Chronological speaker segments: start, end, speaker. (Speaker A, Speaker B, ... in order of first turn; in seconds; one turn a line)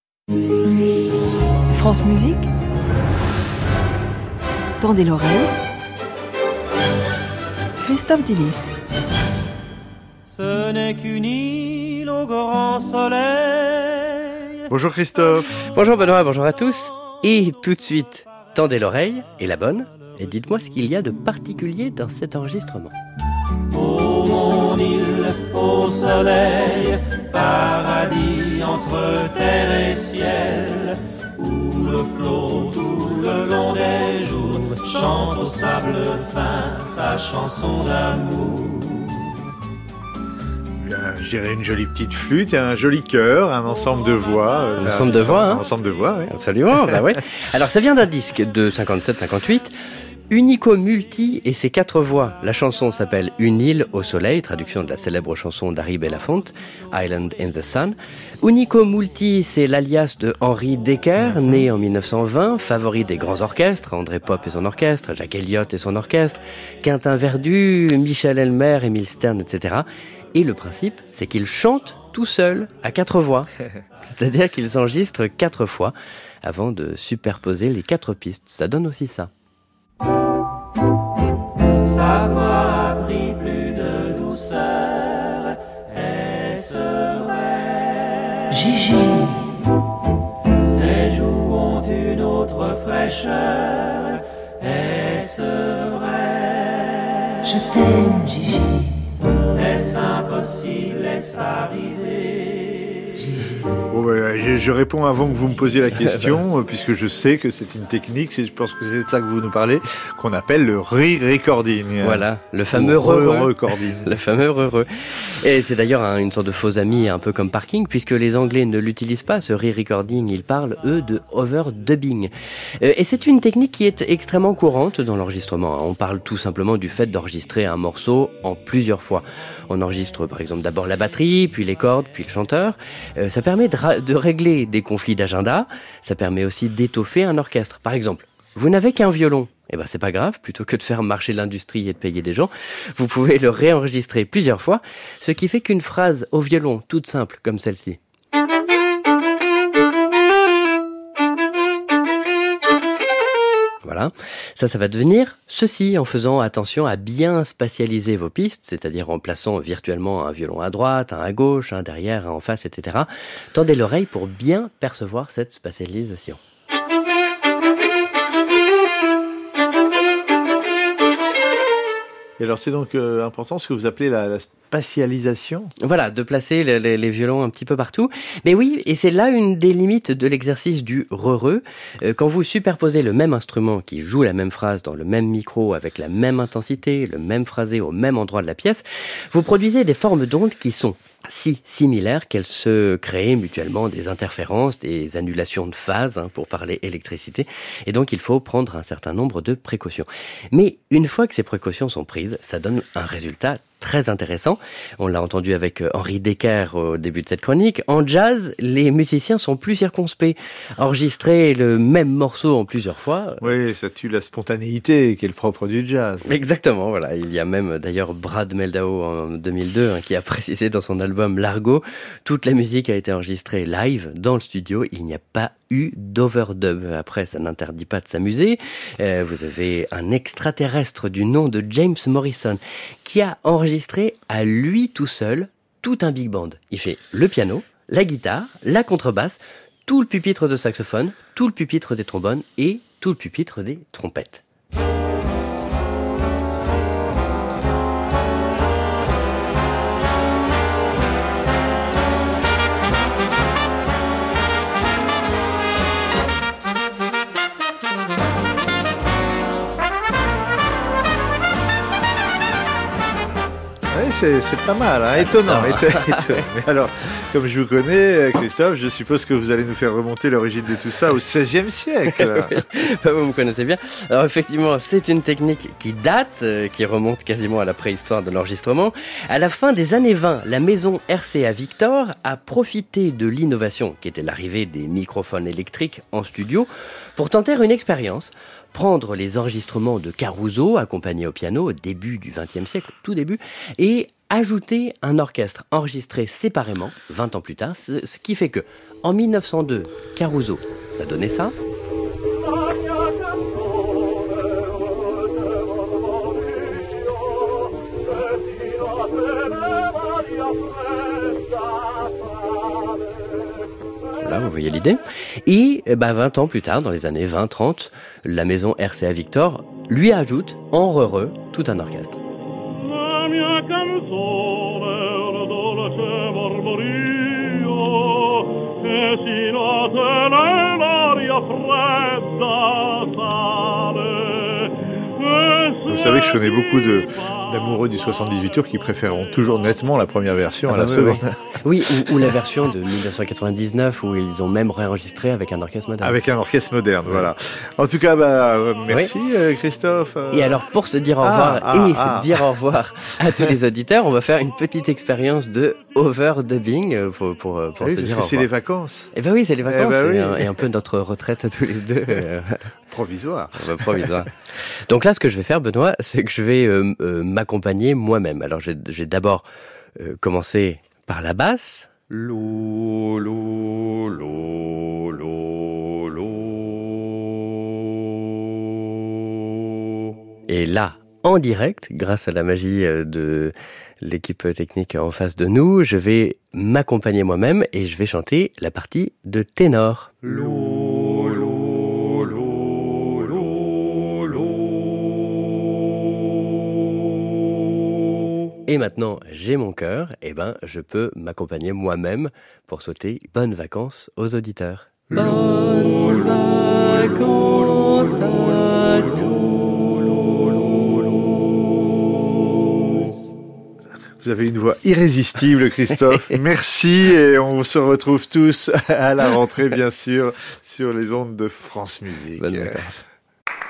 Speaker A: 1.7-2.5
Speaker A: 4.8-5.5
Speaker A: 7.8-8.7
Speaker B: 10.3-14.6
Speaker C: 14.7-15.7
Speaker D: 15.6-22.9
Speaker B: 23.7-39.3
Speaker C: 40.8-46.3
Speaker D: 44.8-45.6
Speaker D: 46.3-49.7
Speaker D: 50.3-73.5
Speaker D: 74.0-79.3
Speaker B: 81.8-89.3
Speaker A: 88.7-89.2
Speaker B: 90.5-97.5
Speaker A: 97.5-98.9
Speaker B: 99.5-103.1
Speaker C: 103.9-114.1
Speaker D: 106.0-106.4
Speaker D: 112.0-114.9
Speaker D: 115.4-148.0
Speaker D: 153.8-166.4
Speaker C: 172.4-175.7
Speaker D: 175.8-213.5
Speaker C: 213.4-216.3
Speaker D: 216.2-244.4
Speaker C: 263.9-272.6
Speaker D: 265.1-266.5
Speaker D: 272.1-301.6
Speaker D: 314.2-322.2
Speaker C: 335.8-341.4
Speaker D: 340.7-346.2
Speaker C: 342.1-342.3
Speaker C: 346.0-350.6
Speaker D: 347.1-347.3
Speaker D: 350.3-358.5
Speaker C: 351.2-352.4
Speaker C: 357.8-359.1
Speaker D: 359.1-362.6
Speaker C: 359.6-360.6
Speaker C: 362.9-364.3
Speaker D: 363.6-364.3
Speaker D: 364.9-369.4
Speaker D: 370.0-376.5
Speaker D: 380.5-390.9
Speaker D: 398.7-411.0
Speaker C: 414.2-422.8
Speaker D: 422.4-423.0